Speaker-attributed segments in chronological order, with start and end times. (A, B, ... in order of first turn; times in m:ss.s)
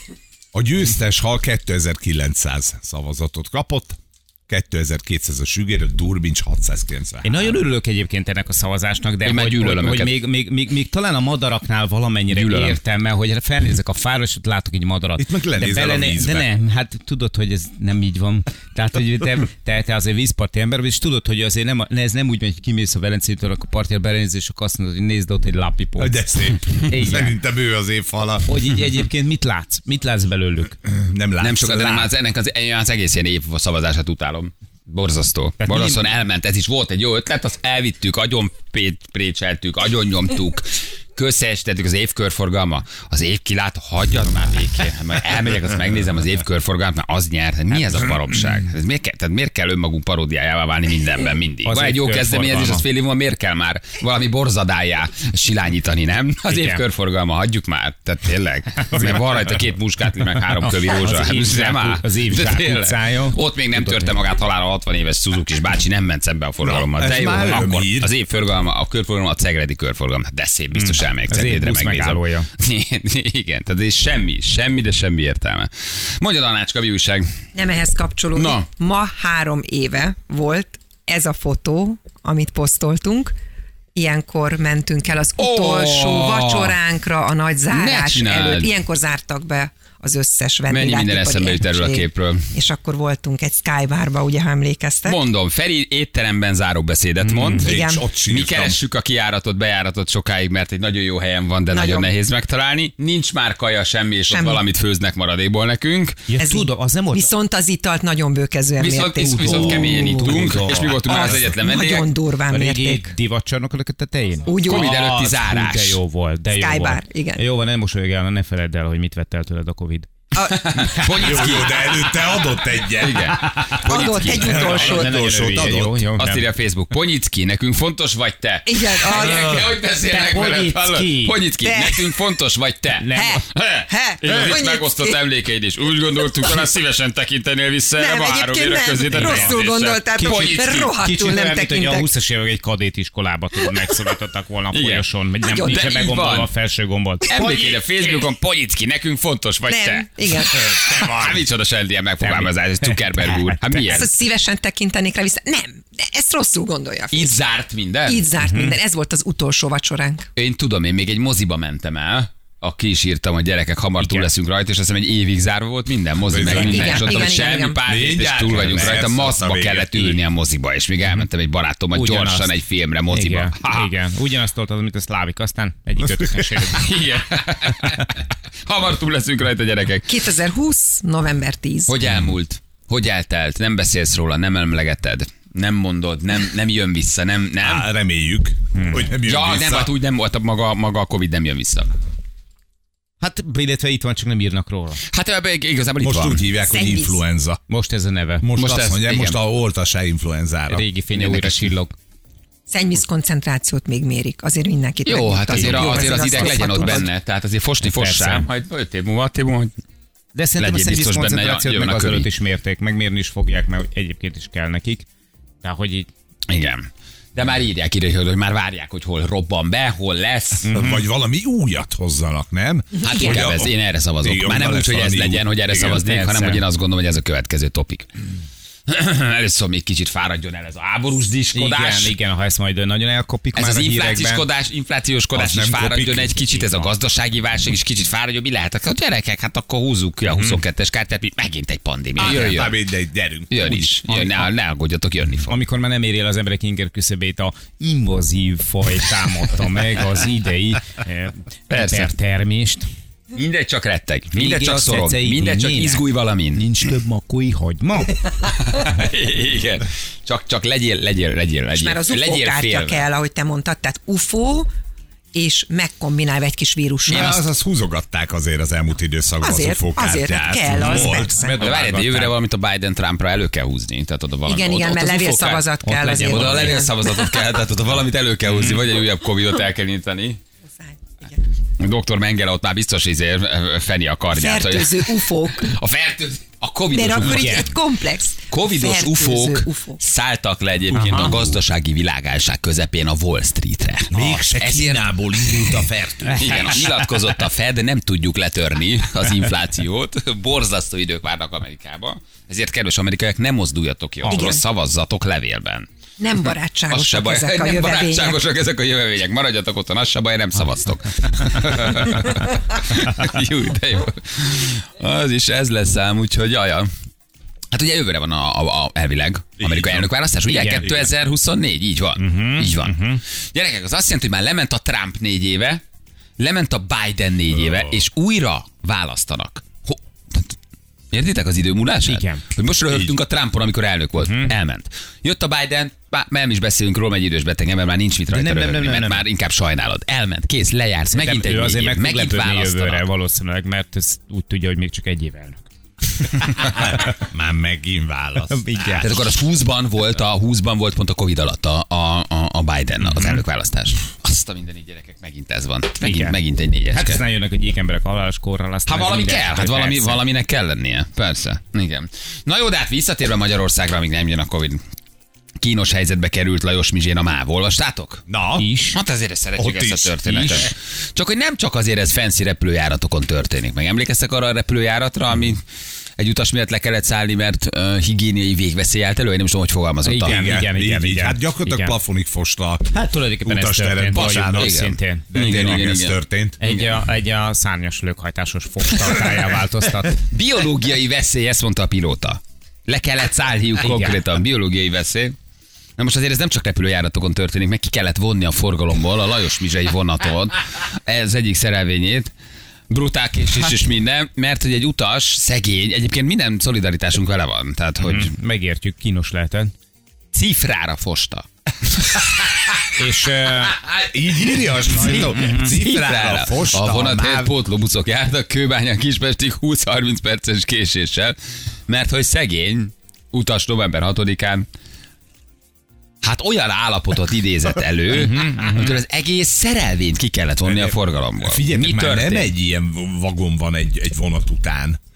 0:00.5-0:07.6 A
0:07.2-0:26.2 B
0:09.2-0:10.2 C
0:12.3-0:12.8 C
0:15.2-0:16.5 A
0:26.0-0:28.6 A
0:26.9-0:27.3 B
0:28.4-0:30.8 B
0:30.8-0:32.1 A
0:31.4-1:17.3 C
0:35.6-0:36.0 B
0:51.6-0:52.8 B
0:56.5-0:56.8 B
1:00.6-1:04.1 B
1:06.6-1:08.1 A
1:10.7-1:12.5 B
1:17.5-1:23.3 D
1:18.3-1:18.6 C
1:23.9-1:35.2 D
1:25.4-1:26.8 C
1:27.7-1:28.7 C
1:30.7-1:32.4 C
1:35.0-1:46.2 C
1:37.2-1:37.7 B
1:37.6-1:38.8 A
1:37.6-1:38.0 D
1:41.7-1:42.1 D
1:44.3-1:44.6 D
1:46.3-1:47.3 B
1:46.4-1:53.1 D
1:48.8-1:52.1 C
1:49.2-1:51.0 B
1:52.5-2:00.1 B
1:54.5-1:54.9 D
1:54.6-1:56.0 C
1:56.5-1:57.4 D
2:00.3-2:02.3 C
2:01.0-2:05.9 A
2:02.9-2:04.9 C
2:03.8-2:05.3 D
2:04.5-2:06.4 B
2:05.5-2:21.0 C
2:08.7-2:09.7 D
2:10.0-2:11.4 B
2:11.6-2:12.0 D
2:13.0-2:13.4 B
2:13.2-2:15.2 D
2:18.0-2:22.1 D
2:19.1-2:19.6 B
2:20.1-2:27.6 B
2:24.7-2:26.5 C
2:25.5-2:26.1 D
2:27.2-2:34.2 C
2:29.7-2:30.6 D
2:30.6-2:31.4 A
2:32.2-2:34.0 B
2:33.9-2:37.3 D
2:37.1-2:38.3 C
2:38.0-2:40.3 D
2:38.4-2:38.8 B
2:40.4-2:53.9 C
2:44.0-2:44.3 B
2:46.3-2:47.3 A
2:46.4-2:47.8 D
2:47.8-2:50.2 A
2:51.9-2:52.5 B
2:53.1-2:56.9 B
2:56.7-3:00.1 C
3:00.1-3:02.0 D
3:01.9-3:07.9 C
3:07.6-3:09.9 A
3:08.8-3:09.0 B
3:09.1-3:11.9 C
3:13.2-3:15.0 B
3:15.1-3:16.4 C
3:16.0-3:17.6 A
3:16.7-3:17.2 D
3:17.7-3:18.5 B
3:18.4-3:20.8 A
3:18.6-3:19.4 C
3:20.7-3:21.9 B
3:21.1-3:21.7 C
3:22.7-3:27.1 D
3:25.0-3:29.7 C
3:25.5-3:27.1 B
3:27.8-3:28.4 B
3:30.3-3:35.1 B
3:30.6-3:32.3 C
3:35.6-3:36.1 B
3:36.5-3:40.7 C
3:40.6-3:41.0 B
3:40.7-3:46.1 A
3:43.0-3:43.3 D
3:43.0-3:48.1 C
3:45.8-3:46.6 B
3:48.9-3:52.1 C
3:51.5-3:54.4 B
3:53.5-4:02.8 C
3:55.3-3:56.4 A
3:56.5-3:56.8 B
4:02.2-4:04.0 A
4:03.5-4:05.6 C
4:04.1-4:04.4 B
4:05.5-4:12.9 B
4:11.7-4:12.1 C
4:13.3-4:16.9 C
4:14.3-4:18.2 B
4:18.4-4:23.0 C
4:21.7-4:24.7 D
4:25.3-4:27.4 D
4:27.1-4:31.3 A
4:29.4-4:31.6 D
4:30.7-4:32.3 B
4:31.4-4:40.4 C
4:34.4-4:37.4 D
4:35.8-4:36.9 B
4:38.5-4:38.8 B
4:40.8-4:41.4 D
4:41.8-4:47.8 C
4:44.3-4:45.7 D
4:46.9-4:50.0 D
4:47.2-4:47.6 B
4:48.5-5:05.9 C
4:50.9-4:51.3 B
4:54.1-4:56.9 A
4:56.2-4:56.8 B
5:04.2-5:04.5 B
5:04.3-5:04.6 D
5:06.2-5:08.4 D
5:06.4-5:16.9 C
5:17.7-5:25.8 C
5:19.6-5:20.0 A
5:20.4-5:21.0 B
5:22.2-5:23.2 B
5:26.4-5:30.5 C
5:31.1-5:43.0 C
5:32.0-5:32.4 B
5:34.2-5:34.5 B
5:38.3-5:39.2 B
5:41.1-5:45.6 B
5:46.6-5:49.2 A
5:48.5-5:49.1 B
5:49.0-5:57.2 C
5:56.0-5:56.4 B
5:56.9-6:00.2 B
5:58.9-6:04.8 C
6:05.6-6:08.2 C
6:08.3-6:08.7 A
6:08.6-6:09.0 B
6:08.9-6:15.6 C
6:09.6-6:10.6 A
6:16.2-6:20.4 C
6:20.0-6:22.0 B
6:20.2-6:26.6 A
6:22.9-6:25.8 B
6:24.1-6:26.8 C
6:26.6-6:30.2 B
6:30.3-6:35.3 C
6:33.8-6:34.2 B
6:36.0-6:42.3 C
6:42.9-6:48.3 C
6:48.0-6:49.7 B
6:50.3-6:52.8 C
6:52.9-6:53.8 B
6:53.6-7:01.4 C
6:54.1-6:57.5 A
6:55.1-6:55.7 B
7:01.9-7:04.6 C
7:06.2-7:12.5 C
7:08.1-7:09.0 B
7:10.6-7:15.0 A